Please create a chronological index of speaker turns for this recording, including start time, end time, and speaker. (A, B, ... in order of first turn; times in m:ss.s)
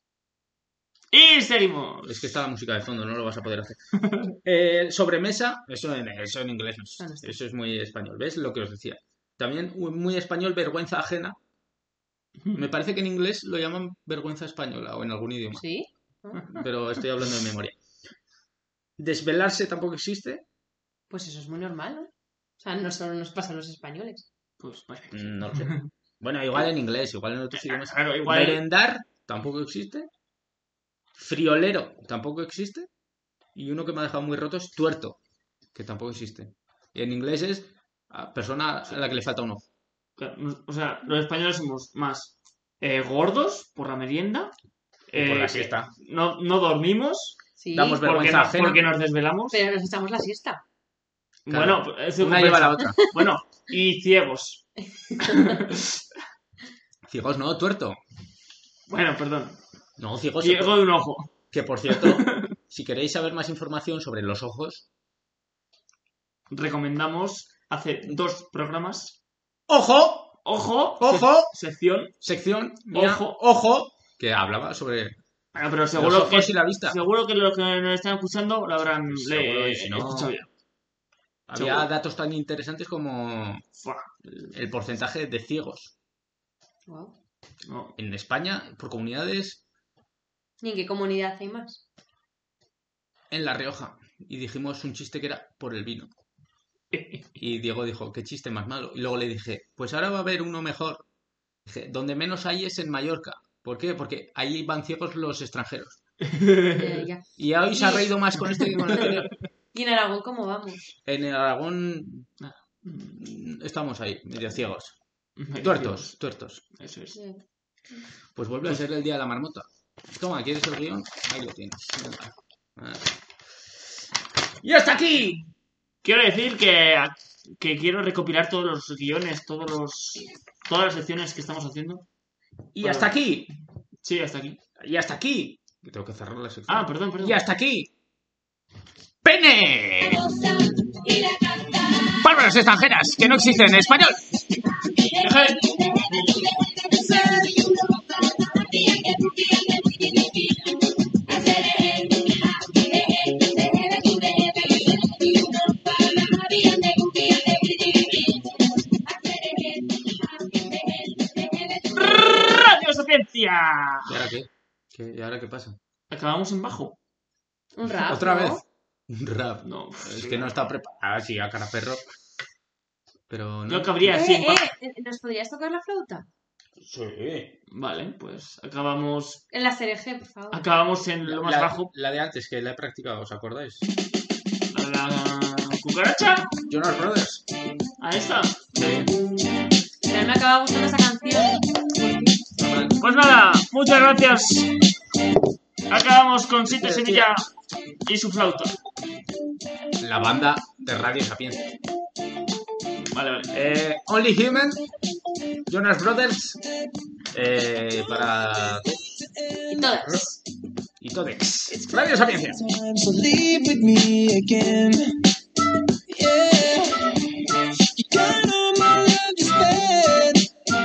0:01.1-0:02.1 A
0:02.0-0:03.8 B
0:03.9-0:04.4 A
0:04.4-0:11.4 B
0:07.0-0:07.3 C
0:12.5-0:15.6 B
0:15.5-0:16.5 C
0:16.5-0:17.8 B
0:19.0-0:20.4 B
0:21.1-0:24.2 C
0:24.6-0:25.9 A
0:25.1-0:30.1 B
0:27.5-0:28.6 A
0:31.2-0:32.9 B
0:33.5-0:35.2 B
0:35.7-0:39.6 B
0:40.2-0:44.5 A
0:45.1-0:47.4 A
0:45.1-0:45.9 B
0:47.6-0:48.0 C
0:47.7-0:48.9 B
0:48.0-0:49.6 A
0:49.5-0:50.6 C
0:51.5-0:55.9 A
0:51.5-0:53.0 B
0:55.1-0:55.6 C
0:57.1-0:58.0 B
0:58.9-0:59.6 A
1:00.0-1:00.8 B
1:00.4-1:01.3 A
1:01.5-1:04.9 B
1:01.9-1:02.6 A
1:06.5-1:09.2 A
1:09.7-1:10.4 B
1:10.4-1:12.1 A
1:11.0-1:11.5 B
1:12.2-1:15.2 B
1:12.9-1:13.4 A
1:15.5-1:20.5 A
1:15.9-1:17.0 B
1:19.1-1:20.3 B
1:21.5-1:23.6 B
1:21.5-1:21.9 A
1:23.8-1:24.5 A
1:24.5-1:25.9 B
1:26.9-1:27.1 C
1:27.6-1:27.9 A
1:28.0-1:29.6 B
1:30.6-1:31.8 C
1:33.3-1:36.1 B
1:36.9-1:37.3 A
1:37.4-1:41.0 B
1:41.6-1:46.0 B
1:46.2-1:47.0 A
1:46.7-1:49.2 C
1:47.4-1:49.3 B
1:49.7-1:50.8 C
1:51.0-1:52.3 B
1:52.4-1:53.2 A
1:53.1-1:55.0 B
1:55.4-1:56.1 A
1:55.6-1:56.6 B
1:56.8-1:57.2 A
1:57.1-1:57.4 C
1:58.3-2:03.1 B
2:04.6-2:05.4 B
2:06.0-2:12.0 A
2:12.7-2:13.5 B
2:12.8-2:13.1 A
2:14.0-2:14.6 A
2:14.8-2:17.9 B
2:16.7-2:17.4 A
2:19.2-2:20.3 B
2:22.0-2:24.2 B
2:25.0-2:26.2 A
2:41.8-2:44.2 A
2:44.0-2:45.8 B
2:46.1-2:47.0 A
2:47.8-2:48.6 C
2:47.8-2:52.0 B
2:49.6-2:50.6 A
2:53.3-2:54.1 B
2:53.7-2:54.7 A
2:54.0-2:56.2 C
2:56.8-2:57.5 B
2:57.7-2:59.4 A
2:59.5-3:00.6 C
3:00.5-3:01.9 A
3:01.2-3:03.9 B
3:04.7-3:06.5 A
3:06.7-3:07.4 B
3:08.0-3:09.1 A
3:08.7-3:09.1 B
3:10.1-3:12.2 C
3:12.6-3:13.0 B
3:13.0-3:14.7 A
3:15.9-3:17.4 A
3:16.6-3:17.3 B
3:18.0-3:18.8 A
3:20.0-3:21.6 B
3:23.0-3:23.6 A
3:23.5-3:24.8 B
3:25.7-3:26.6 B
3:27.3-3:29.0 B
3:29.3-3:29.9 D
3:29.7-3:30.4 C
3:31.0-3:32.6 B
3:31.9-3:35.2 D
3:36.1-3:40.5 D